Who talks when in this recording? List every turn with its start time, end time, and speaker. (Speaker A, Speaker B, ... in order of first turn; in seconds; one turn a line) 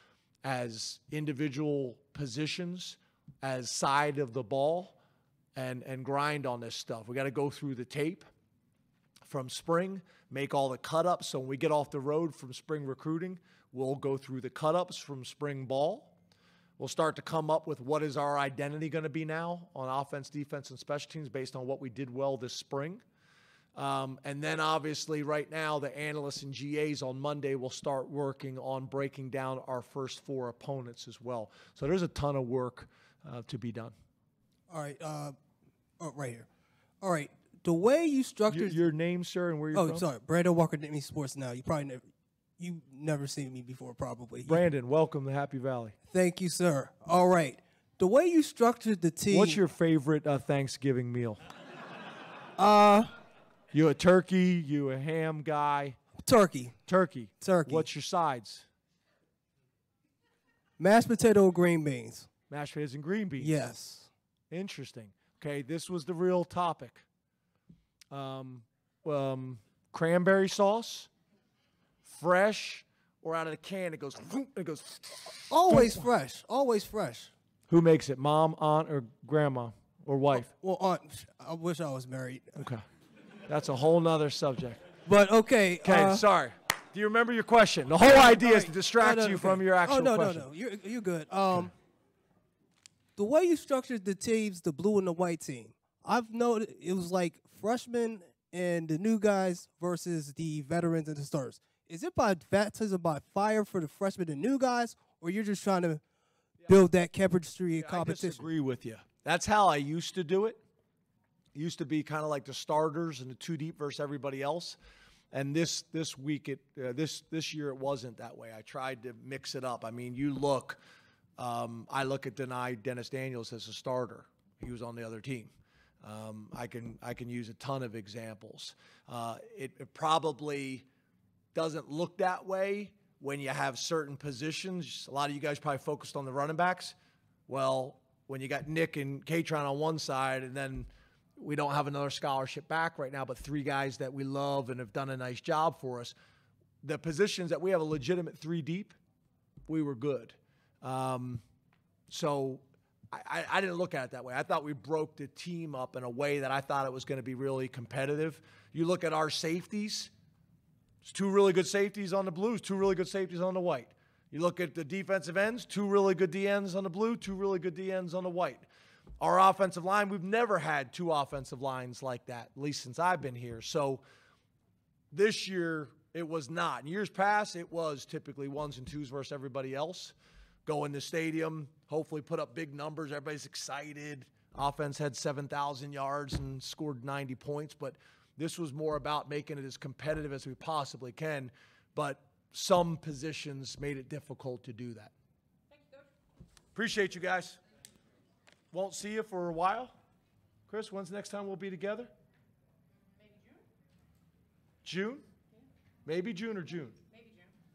Speaker A: 0.4-5.0
Speaker A: 5.5-8.2
Speaker A: 9.2-16.1
Speaker A: 16.8-23.0
Speaker A: 23.7-33.9
Speaker B: 34.7-35.4
Speaker B: 36.0-36.5
Speaker B: 37.0-38.8
Speaker A: 38.5-40.1
Speaker B: 39.7-42.0
Speaker B: 42.6-44.6
Speaker A: 44.4-46.0
Speaker B: 46.1-49.6
Speaker A: 49.3-51.4
Speaker B: 52.6-53.1
Speaker A: 53.7-56.0
Speaker B: 56.2-56.8
Speaker A: 56.8-58.7
Speaker B: 57.3-57.9
Speaker B: 60.8-62.3
Speaker A: 62.5-63.7
Speaker B: 63.4-64.1
Speaker A: 64.5-67.0
Speaker A: 68.1-71.1
Speaker A: 72.0-76.1
Speaker B: 75.5-77.3
Speaker A: 77.7-80.5
Speaker B: 80.3-82.7
Speaker A: 82.6-82.8
Speaker A: 83.5-84.8
Speaker B: 85.0-86.2
Speaker A: 85.8-90.5
Speaker B: 88.0-91.7
Speaker B: 93.2-106.0
Speaker B: 106.6-108.5
Speaker A: 107.8-110.6
Speaker A: 111.5-114.8
Speaker A: 115.3-120.8
Speaker A: 121.4-125.5
Speaker A: 126.0-130.9
Speaker A: 131.5-136.9
Speaker A: 137.5-146.2
Speaker A: 146.8-148.9
Speaker A: 149.7-151.4
Speaker A: 152.1-160.1
Speaker A: 161.0-168.7
Speaker A: 169.2-174.0
Speaker A: 175.1-195.1
Speaker A: 196.7-197.6
Speaker A: 198.7-199.9
Speaker A: 200.7-202.1
Speaker A: 204.8-205.2
Speaker A: 206.1-207.0